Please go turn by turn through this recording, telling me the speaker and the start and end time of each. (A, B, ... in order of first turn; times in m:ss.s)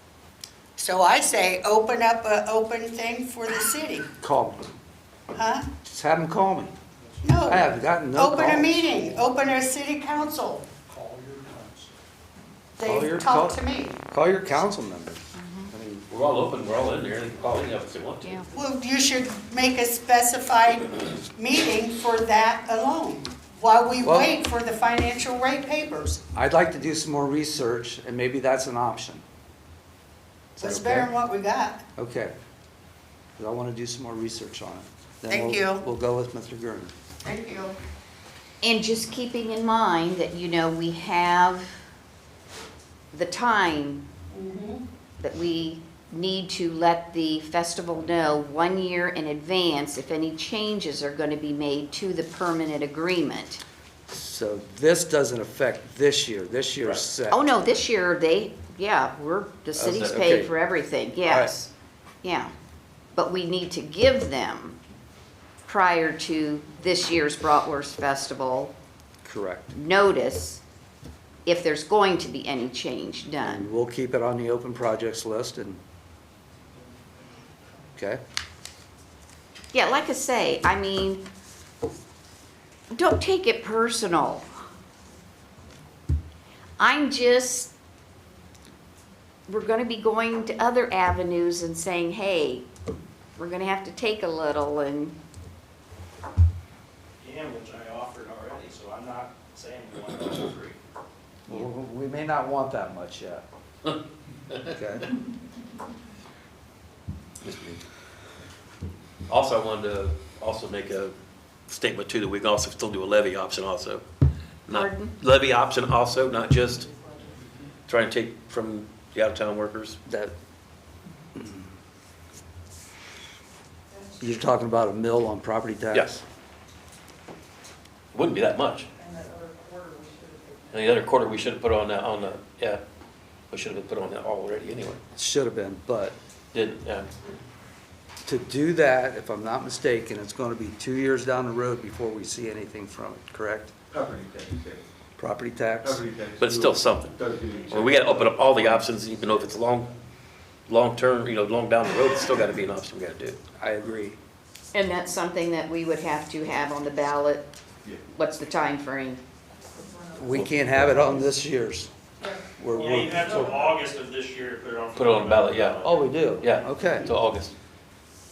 0:00.8-0:04.1 A
0:04.2-0:04.6 B
0:05.3-0:05.6 A
0:05.8-0:06.7 B
0:07.2-0:10.6 A
0:07.4-0:09.3 B
0:10.9-0:11.8 B
0:12.8-0:14.0 A
0:12.8-0:13.6 B
0:14.1-0:16.0 B
0:15.3-0:15.7 C
0:16.1-0:18.4 D
0:18.2-0:18.5 C
0:18.5-0:26.2 A
0:24.0-0:24.3 B
0:26.3-0:29.2 B
0:30.6-0:31.1 B
0:30.6-0:31.8 A
0:32.0-0:32.3 B
0:33.4-0:36.9 B
0:35.3-0:35.8 A
0:37.2-0:37.8 A
0:38.6-0:41.6 C
0:43.1-0:44.0 C
0:44.3-0:44.8 A
0:45.2-0:53.6 C
0:54.1-0:57.4 B
0:57.3-1:01.7 C
0:59.8-1:00.5 B
0:59.8-1:00.3 D
1:01.2-1:01.5 B
1:02.2-1:02.5 C
1:03.1-1:04.8 C
1:05.6-1:08.7 C
1:09.2-1:09.7 B
1:09.7-1:10.6 C
1:11.4-1:13.7 C
1:13.4-1:15.8 B
1:19.7-1:21.2 C
1:22.9-1:24.5 C
1:26.8-1:27.7 C
1:29.5-1:32.7 C
1:33.4-1:35.2 C
1:37.2-1:40.8 E
1:41.5-1:43.4 B
1:44.7-1:45.1 B
1:47.4-1:47.8 D
1:49.3-1:51.1 D
1:51.7-1:54.0 D
1:54.7-1:56.9 D
1:54.7-1:55.2 C
1:57.9-2:00.0 D
2:00.0-2:00.3 B
2:01.4-2:01.6 B
2:04.2-2:06.2 B
2:08.1-2:08.9 D
2:10.7-2:12.8 D
2:13.5-2:15.0 D
2:15.1-2:16.2 B
2:16.5-2:17.1 D
2:18.2-2:23.7 B
2:23.9-2:24.8 F
2:25.2-2:26.0 B
2:25.8-2:28.4 F
2:26.4-2:27.1 D
2:27.7-2:29.9 D
2:30.7-2:33.4 D
2:33.6-2:34.2 B
2:34.7-2:37.5 C
2:38.1-2:39.2 C
2:40.1-2:41.9 B
2:42.6-2:43.7 B
2:42.7-2:46.1 E
2:44.9-2:47.5 D
2:45.8-2:47.1 B